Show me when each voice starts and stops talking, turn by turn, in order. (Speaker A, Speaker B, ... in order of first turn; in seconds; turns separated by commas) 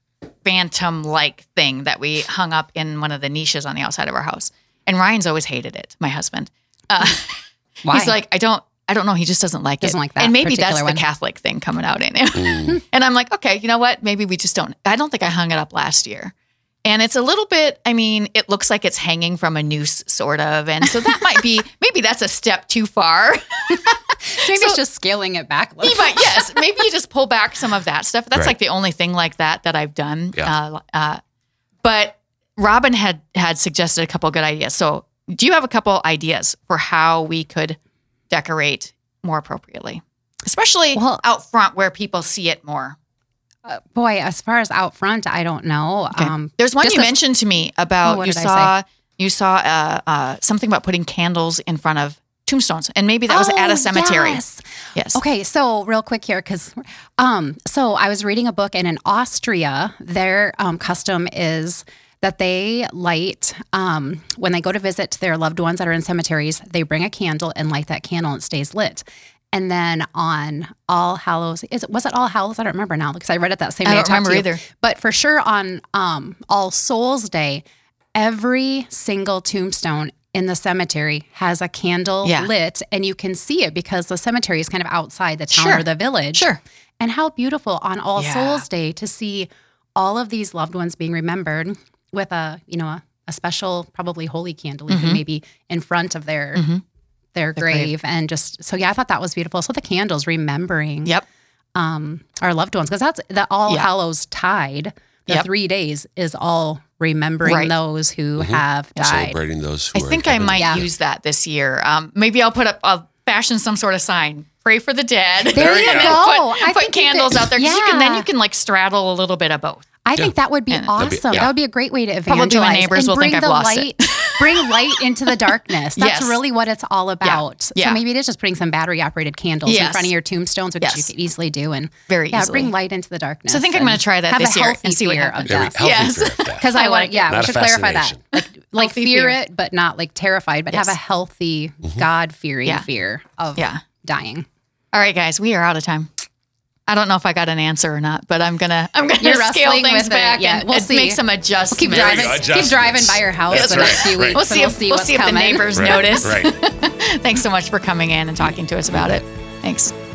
Speaker A: 0.4-24.8, Speaker B: 7.8-8.2, Speaker B: 9.8-11.0, Speaker C: 12.3-12.8, Speaker B: 23.7-26.6, Speaker A: 25.8-31.2, Speaker A: 31.8-37.8, Speaker A: 38.3-43.0, Speaker B: 40.9-41.2, Speaker B: 43.6-47.1, Speaker A: 46.1-54.4, Speaker B: 48.0-48.7, Speaker B: 53.3-77.6, Speaker A: 54.9-55.2, Speaker A: 73.8-74.6, Speaker B: 78.1-96.6, Speaker A: 82.2-82.5, Speaker A: 85.5-86.6, Speaker A: 88.2-88.6, Speaker A: 94.9-95.2, Speaker A: 96.5-96.8, Speaker B: 97.3-101.1, Speaker A: 97.6-97.9, Speaker B: 101.7-109.4, Speaker A: 107.4-107.7, Speaker C: 108.4-110.9, Speaker A: 109.9-119.8, Speaker B: 110.6-110.8, Speaker C: 115.5-116.2, Speaker B: 115.5-118.3, Speaker B: 120.0-144.5, Speaker A: 120.7-121.5, Speaker C: 121.0-121.5, Speaker A: 122.3-125.3, Speaker A: 126.0-126.4, Speaker A: 127.2-128.0, Speaker A: 129.6-130.1, Speaker A: 130.8-131.1, Speaker A: 132.1-132.7, Speaker A: 133.5-137.3, Speaker C: 135.5-138.2, Speaker A: 138.3-139.4, Speaker A: 143.6-143.8, Speaker A: 144.9-146.2, Speaker A: 146.9-152.4, Speaker B: 149.2-156.3, Speaker C: 151.9-154.4, Speaker A: 153.5-159.9, Speaker C: 155.7-156.5, Speaker C: 158.9-159.2